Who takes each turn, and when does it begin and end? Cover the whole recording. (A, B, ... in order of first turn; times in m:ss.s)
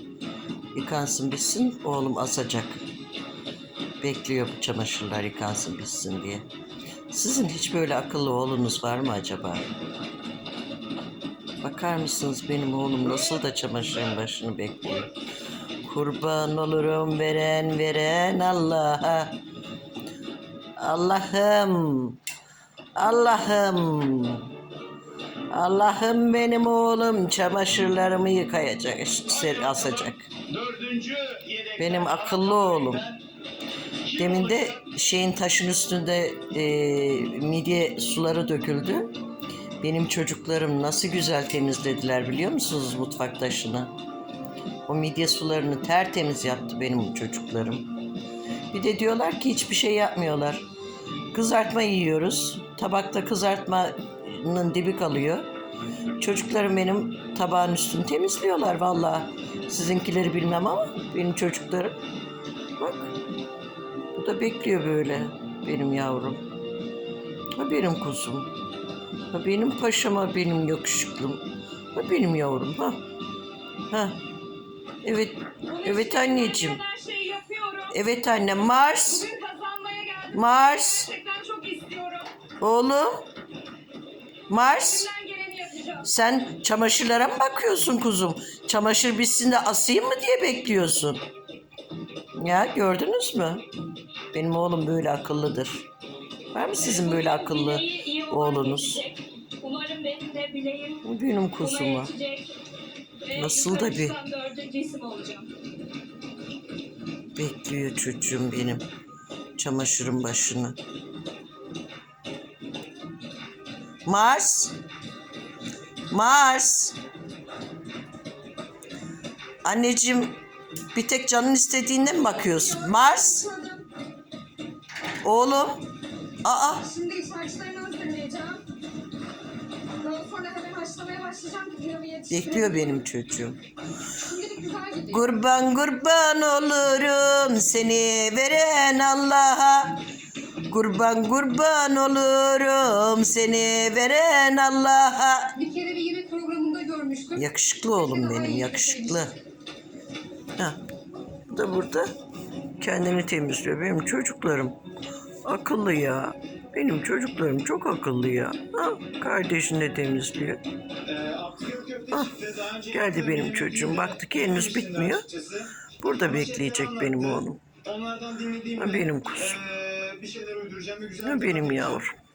0:00.8-0:02.8 A
0:04.0-0:06.5 A
0:07.1-0:09.7 A
0:11.6-0:15.2 A
0:15.8-0:19.4 A
0:20.8-0:22.2 A
0:23.0-0:24.5 A
0:25.5-0:30.3 A
0:29.3-0:33.2 B
0:31.8-0:33.0 A
0:34.1-0:34.8 B
0:34.1-0:39.2 A
0:39.8-0:43.9 A
0:44.9-0:47.9 A
0:48.7-0:50.7 A
0:51.3-0:55.5 A
0:56.2-1:02.0 A
1:02.8-1:03.1 A
1:04.2-1:06.5 A
1:07.6-1:08.5 A
1:09.3-1:13.0 A
1:13.9-1:14.2 A
1:15.0-1:16.8 A
1:15.7-1:18.0 C
1:17.9-1:19.3 A
1:18.8-1:22.3 C
1:20.3-1:21.1 A
1:22.6-1:23.3 A
1:24.5-1:25.1 A
1:24.6-1:26.1 C
1:26.0-1:31.2 A
1:32.4-1:33.6 A
1:34.3-1:35.8 A
1:36.5-1:39.0 A
1:36.8-1:41.1 C
1:41.0-1:42.1 A
1:41.6-1:42.6 C
1:43.2-1:45.5 C
1:43.3-1:44.2 A
1:47.4-1:48.9 A
1:49.6-1:50.8 A
1:54.1-1:54.7 A
1:56.1-1:57.0 A
1:59.6-2:00.4 A
2:00.9-2:03.5 A
2:02.5-2:03.9 D
2:05.2-2:05.8 A
2:06.4-2:06.9 A
2:06.8-2:08.6 D
2:10.0-2:13.0 D
2:12.3-2:13.6 A
2:14.2-2:15.2 D
2:15.1-2:20.0 A
2:20.6-2:25.6 A
2:25.6-2:27.4 D
2:27.4-2:29.4 A
2:28.0-2:29.3 D
2:31.5-2:32.1 A
2:32.8-2:34.8 A
2:35.4-2:40.6 A
2:41.1-2:52.0 B
2:42.9-2:45.3 A
2:46.0-2:47.6 A
2:48.8-2:49.6 A
2:51.2-2:52.2 A